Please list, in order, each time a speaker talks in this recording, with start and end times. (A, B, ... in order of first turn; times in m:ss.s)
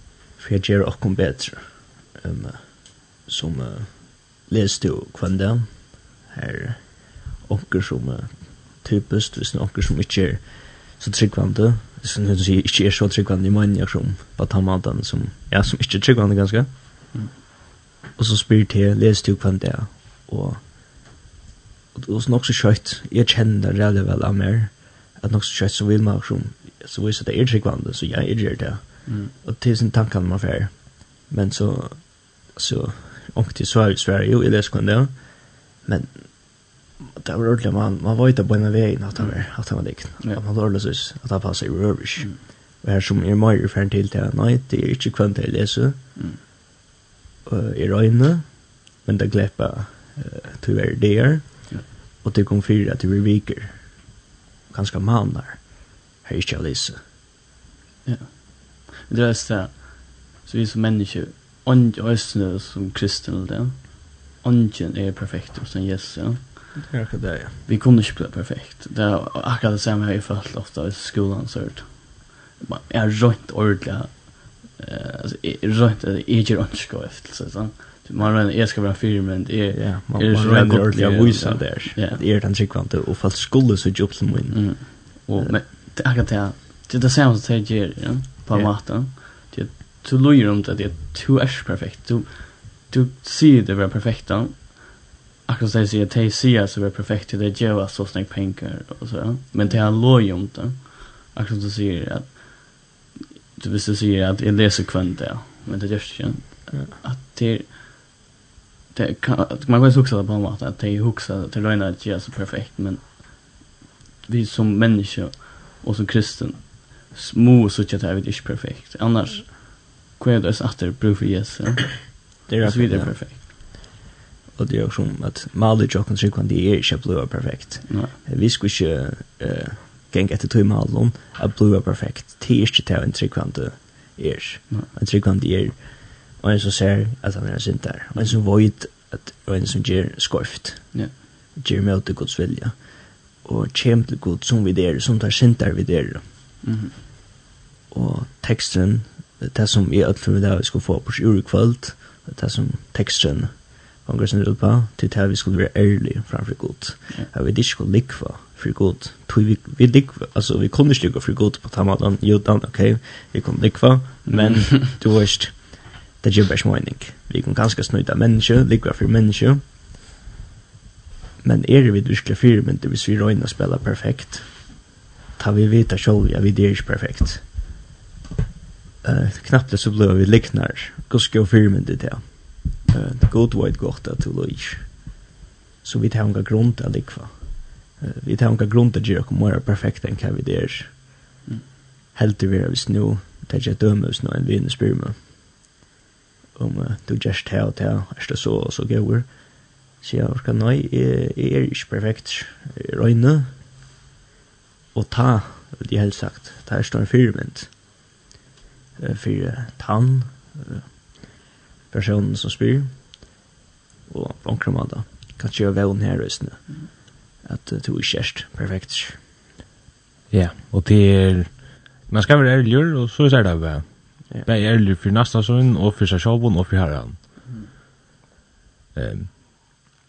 0:00.4-0:16.7 A
0:18.2-0:20.7 A
0:21.9-0:46.0 A
0:29.1-0:29.3 B
0:39.2-0:40.4 B
0:46.2-0:46.4 B
0:47.4-0:54.2 A
0:54.7-0:57.0 A
0:58.0-1:06.9 B
1:06.8-1:07.6 A
1:07.6-1:22.2 B
1:19.7-1:25.6 A
1:24.5-1:43.0 B
1:43.6-1:47.8 B
1:48.9-1:53.6 B
1:54.3-2:03.4 B
2:02.5-2:03.5 A
2:04.5-2:26.3 A
2:07.9-2:08.2 B
2:26.6-2:27.0 B
2:27.9-2:49.6 A
2:44.3-2:44.8 B
2:51.4-2:54.8 A
2:55.4-2:57.5 A
2:59.0-3:05.3 A
3:05.8-3:11.1 A
3:12.1-3:15.3 A
3:16.6-3:23.6 A
3:24.9-3:27.8 A
3:29.0-3:33.4 A
3:34.1-3:39.2 A
3:40.3-3:47.4 C
3:49.0-3:49.8 C